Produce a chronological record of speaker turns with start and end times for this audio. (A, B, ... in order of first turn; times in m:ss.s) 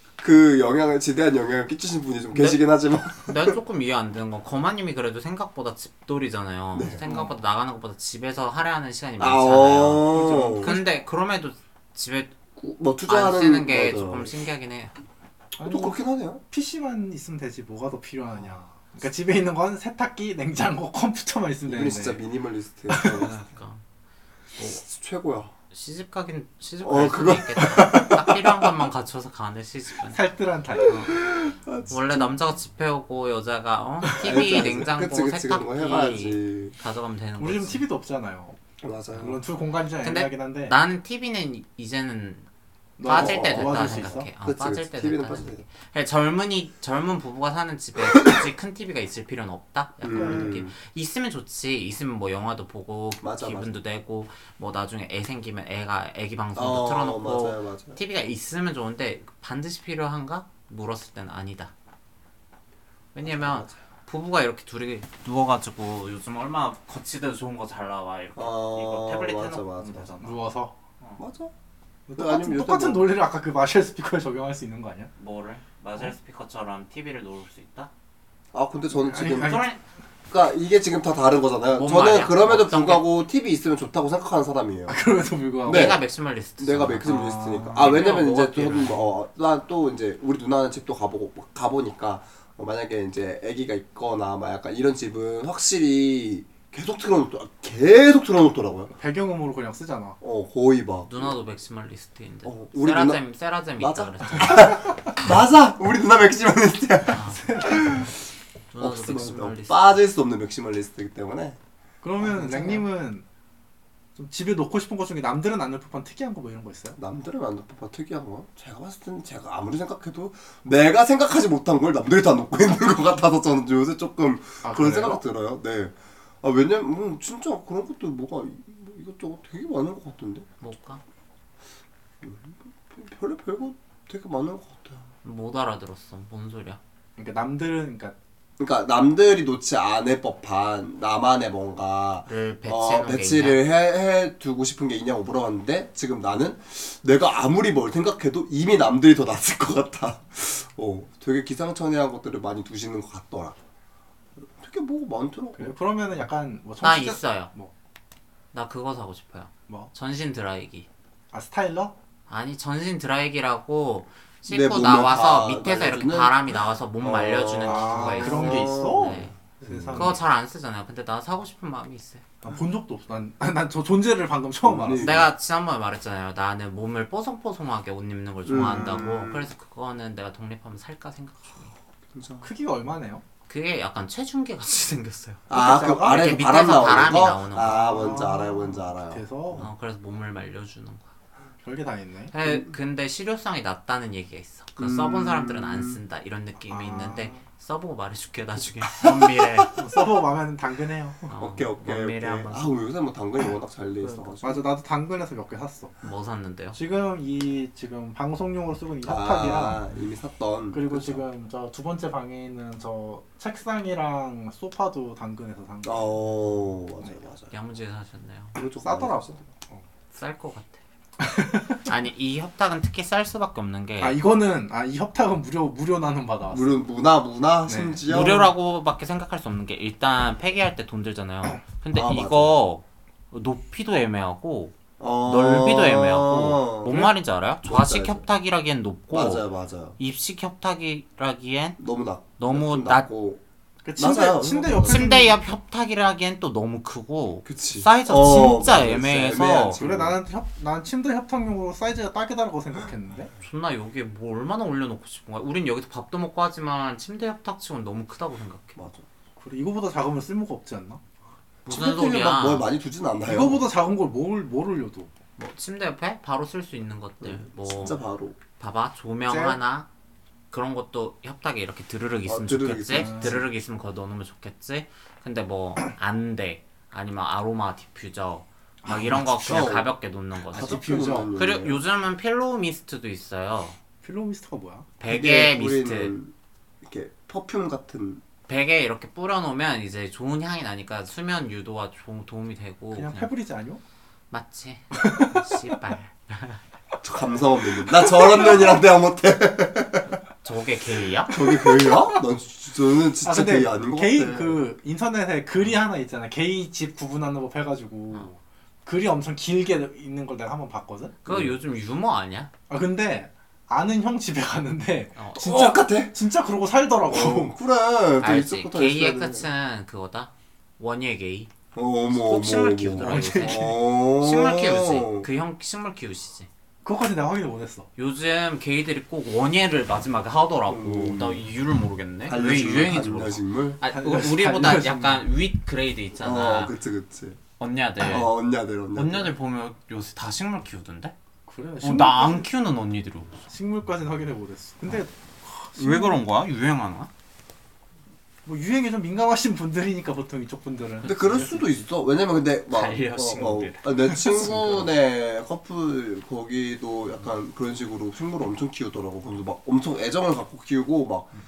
0:00.2-0:03.6 A
0:02.3-0:02.6 B
0:03.2-0:12.4 B
0:06.7-0:07.0 A
0:07.0-0:07.3 C
0:09.2-0:10.8 A
0:10.1-0:10.8 C
0:12.6-0:14.3 A
0:13.1-0:14.9 B
0:15.6-0:16.0 C
0:15.6-0:16.4 A
0:16.5-0:22.2 C
0:21.7-0:23.4 A
0:23.0-0:23.8 B
0:24.6-0:25.5 A
0:25.7-0:30.2 B
0:26.8-0:28.8 A
0:30.1-0:31.1 C
0:30.8-0:31.2 B
0:31.0-0:32.3 A
0:31.9-0:37.8 B
0:34.0-0:34.5 C
0:34.2-0:36.7 A
0:37.4-0:38.6 C
0:38.8-0:39.4 A
0:39.1-0:40.7 C
0:40.0-0:42.4 B
0:43.0-0:44.3 C
0:43.0-1:01.7 B
0:43.0-0:45.6 A
0:48.0-0:48.4 A
0:50.0-0:50.7 A
0:50.1-0:50.6 C
0:53.2-0:53.7 A
0:56.5-0:58.0 A
1:03.1-1:10.4 B
1:03.2-1:03.7 A
1:08.4-1:10.2 A
1:10.2-1:10.8 C
1:11.2-1:11.5 A
1:12.1-1:15.1 C
1:12.2-1:13.1 A
1:15.2-1:17.9 B
1:18.5-1:19.6 A
1:18.9-1:19.7 C
1:19.3-1:19.8 B
1:20.3-1:25.0 A
1:21.8-1:23.0 B
1:24.9-1:26.0 C
1:25.6-1:26.0 A
1:25.6-1:29.0 B
1:26.6-1:38.9 A
1:27.0-1:28.0 C
1:39.0-1:40.2 C
1:40.2-1:41.4 A
1:41.1-1:44.8 B
1:42.4-1:43.2 A
1:43.8-1:48.1 A
1:44.6-1:44.9 C
1:47.1-1:47.4 B
1:47.2-1:48.0 C
1:48.7-1:49.9 B
1:48.8-1:51.6 A
1:52.0-1:53.2 C
1:52.4-1:52.8 B
1:52.4-1:52.8 A
1:54.2-1:57.0 C
1:57.0-2:10.5 A
2:04.6-2:05.2 C
2:10.6-2:11.0 B
2:12.2-2:15.1 A
2:15.2-2:16.8 B
2:17.2-2:18.1 C
2:18.6-2:33.6 A
2:22.3-2:23.6 B
2:34.6-2:35.7 A
2:35.6-2:37.7 C
2:36.8-2:37.5 B
2:38.5-2:40.9 B
2:41.3-2:41.9 C
2:42.3-2:49.3 B
2:44.5-2:50.2 A
2:47.6-2:50.2 C
2:49.9-2:52.3 B
2:52.4-2:55.2 C
2:54.6-2:55.3 A
2:55.0-3:01.7 B
2:58.4-2:59.5 A
3:02.1-3:02.5 A
3:02.4-3:03.2 C
3:03.5-3:07.9 B
3:05.5-3:09.7 A
3:05.5-3:06.4 C
3:07.6-3:09.7 C
3:09.6-3:11.1 B
3:11.6-3:12.3 C
3:12.3-3:19.7 B
3:12.4-3:12.7 A
3:14.8-3:16.0 A
3:16.7-3:17.4 C
3:19.0-3:19.7 A
3:19.7-3:21.3 C
3:21.3-3:22.7 B
3:21.3-3:24.6 A
3:24.4-3:25.9 C
3:26.0-3:26.8 B
3:26.7-3:29.8 C
3:29.0-3:31.2 A
3:30.7-3:36.2 C
3:35.8-3:37.5 A
3:37.5-3:38.5 B
3:38.5-3:39.4 A
3:38.8-3:39.8 C
3:40.1-3:40.8 B
3:41.2-3:41.8 C
3:41.8-3:44.2 B
3:44.0-3:46.7 C
3:46.5-3:48.5 A
3:47.7-3:48.4 C
3:48.0-3:59.4 B
3:51.9-3:52.6 A
3:55.0-3:58.2 A
3:59.1-4:00.0 A
4:00.0-4:01.8 B
4:01.8-4:03.4 A
4:02.4-4:03.1 B
4:03.8-4:05.4 C
4:04.0-4:05.3 A
4:04.8-4:09.8 B
4:07.4-4:10.2 A
4:09.8-4:13.3 C
4:13.4-4:18.8 B
4:18.8-4:19.0 A
4:19.4-4:21.0 C
4:21.6-4:23.6 A
4:21.7-4:22.6 B
4:23.2-4:25.1 C
4:25.4-4:28.0 B
4:27.2-4:28.4 A
4:28.6-4:29.9 B
4:29.3-4:29.6 C
4:30.5-4:43.8 B
4:32.2-4:33.4 A
4:32.9-4:33.4 C
4:38.8-4:39.7 C
4:39.3-4:39.9 A
4:40.5-4:41.8 A
4:40.5-4:41.3 C
4:44.0-4:44.9 C
4:45.0-4:46.1 B
4:45.0-4:48.2 A
4:48.5-4:53.3 B
4:52.9-4:53.8 C
4:54.3-4:56.6 B
4:54.9-4:55.6 C
4:57.0-5:00.2 A
4:58.0-4:58.4 C
5:00.4-5:01.4 B
5:01.3-5:04.6 A
5:01.5-5:02.0 C
5:03.2-5:11.1 C
5:11.2-5:12.5 B
5:11.3-5:11.5 A
5:12.7-5:17.5 C
5:15.2-5:15.7 B
5:15.3-5:16.1 A
5:17.1-5:19.5 A
5:18.2-5:21.5 B
5:21.7-5:25.3 A
5:22.1-5:26.5 B
5:23.0-5:23.7 C
5:26.8-5:27.9 C
5:28.0-5:36.7 B
5:30.7-5:31.4 A
5:32.2-5:33.8 A
5:33.9-5:35.3 C
5:36.2-5:37.4 A
5:37.6-5:38.3 B
5:38.0-5:39.3 A
5:38.9-5:41.1 B
5:41.5-5:42.5 C
5:41.8-5:43.4 B
5:43.5-5:46.2 C
5:45.8-5:47.1 B
5:48.4-5:51.7 C
5:51.0-6:01.3 A
5:52.7-5:54.9 B